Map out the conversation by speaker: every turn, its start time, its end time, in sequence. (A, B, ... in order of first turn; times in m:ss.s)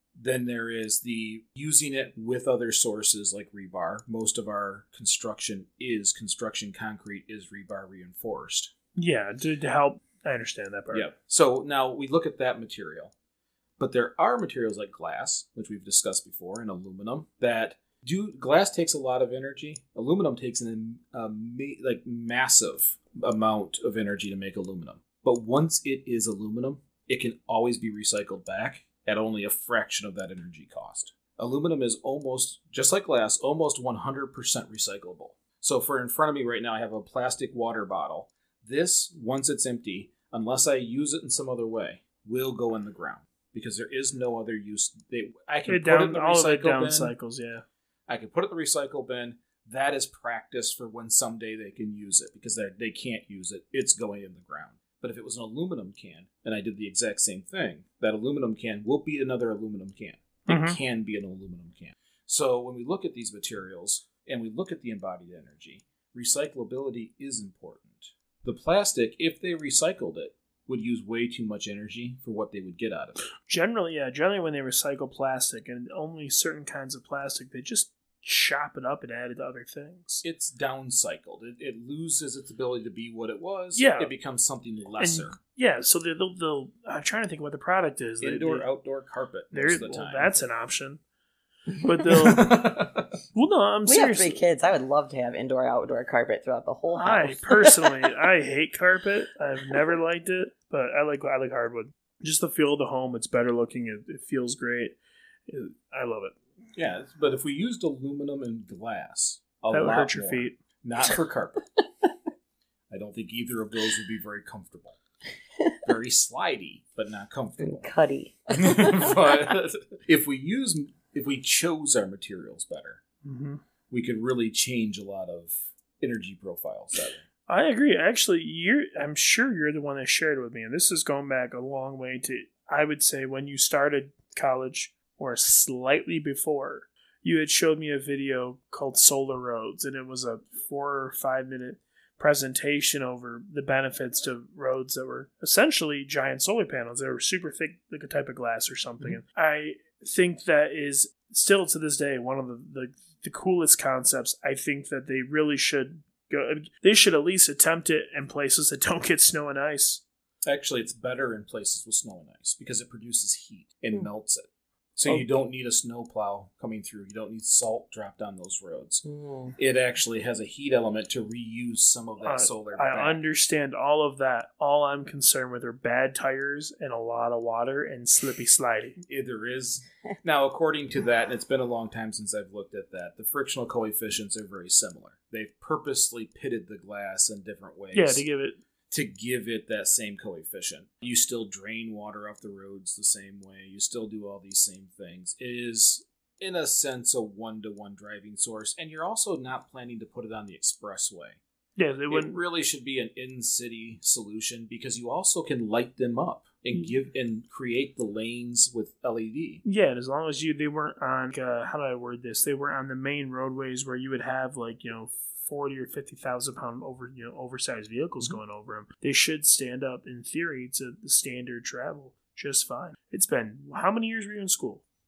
0:00.2-0:08.7 A
0:09.0-0:11.1 B
0:10.9-0:13.1 A
0:13.8-0:47.1 A
0:45.7-0:47.6 B
0:48.1-1:13.3 A
1:00.5-1:00.8 B
1:13.5-1:20.2 B
1:20.2-1:25.4 A
1:23.7-1:24.1 B
1:25.0-1:28.7 B
1:28.2-1:30.3 A
1:29.5-1:31.0 B
1:31.8-1:32.8 B
1:32.1-1:33.1 A
1:33.3-1:34.4 B
1:33.9-1:37.9 C
1:37.0-1:45.0 B
1:45.5-1:46.4 B
1:46.8-1:51.6 A
1:49.7-1:50.6 B
1:52.9-1:55.0 A
1:55.8-1:57.9 A
1:57.6-1:59.4 C
1:58.5-2:03.0 A
2:03.2-2:03.6 B
2:03.9-2:07.2 A
2:07.5-2:40.0 B
2:40.5-2:49.0 A
2:49.0-2:49.6 C
2:49.6-2:53.2 A
2:52.2-2:59.0 B
2:59.0-3:08.2 A
3:07.9-3:08.6 B
3:08.9-3:21.4 A
3:21.8-3:22.4 B
3:22.1-3:29.6 A
3:29.6-3:44.8 B